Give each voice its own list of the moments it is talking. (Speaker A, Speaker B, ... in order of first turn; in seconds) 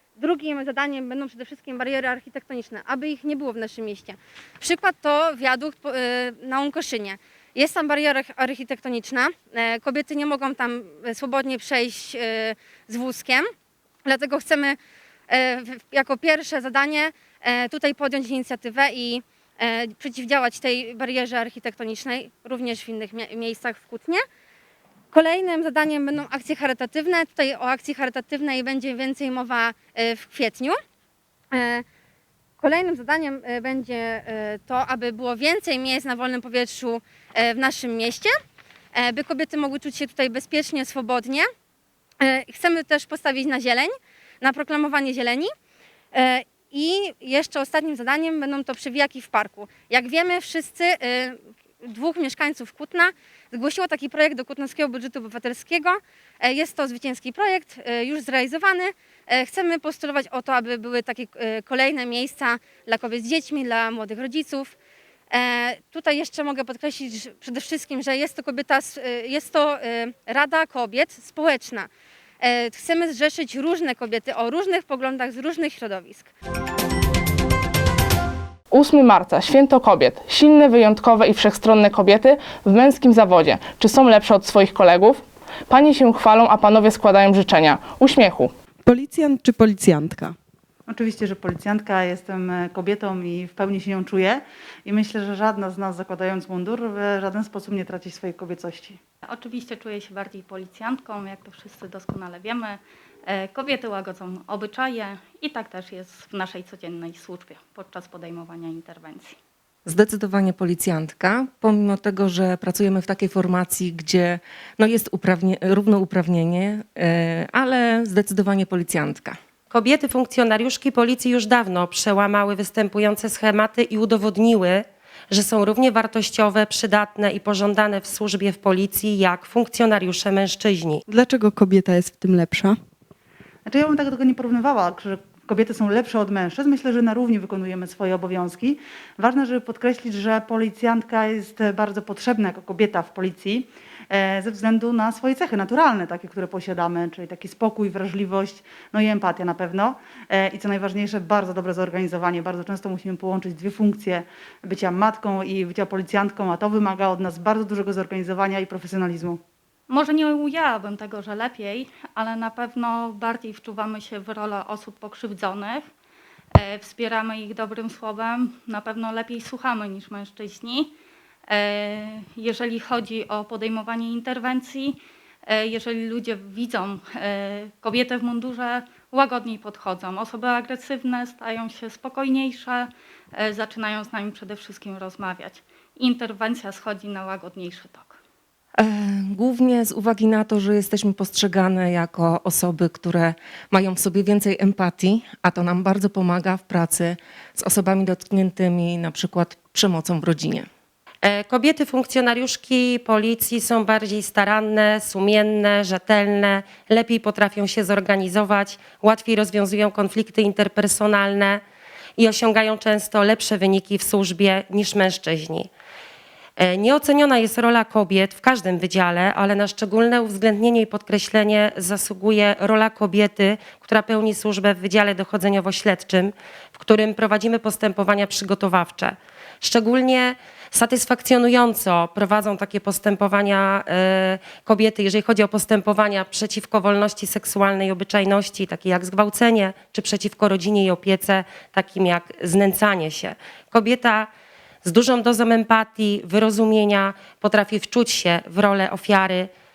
Speaker A: 0.2-13.5, 14.0-14.8, 15.3-24.2, 25.1-30.8, 31.5-31.8, 32.6-38.3, 38.9-41.5, 42.2-45.5, 46.1-64.7, 65.3-71.9, 72.4-76.3
Speaker B: 78.7-88.5
Speaker C: 88.8-90.4, 131.1-132.8
Speaker D: 90.9-99.0, 133.7-159.4
Speaker E: 99.3-109.3, 159.9-165.9, 166.5-170.9, 171.5-188.2
Speaker F: 109.8-119.4, 188.8-200.7
Speaker G: 119.7-131.0, 201.2-211.6, 212.2-215.7, 216.6-244.3, 244.8-249.5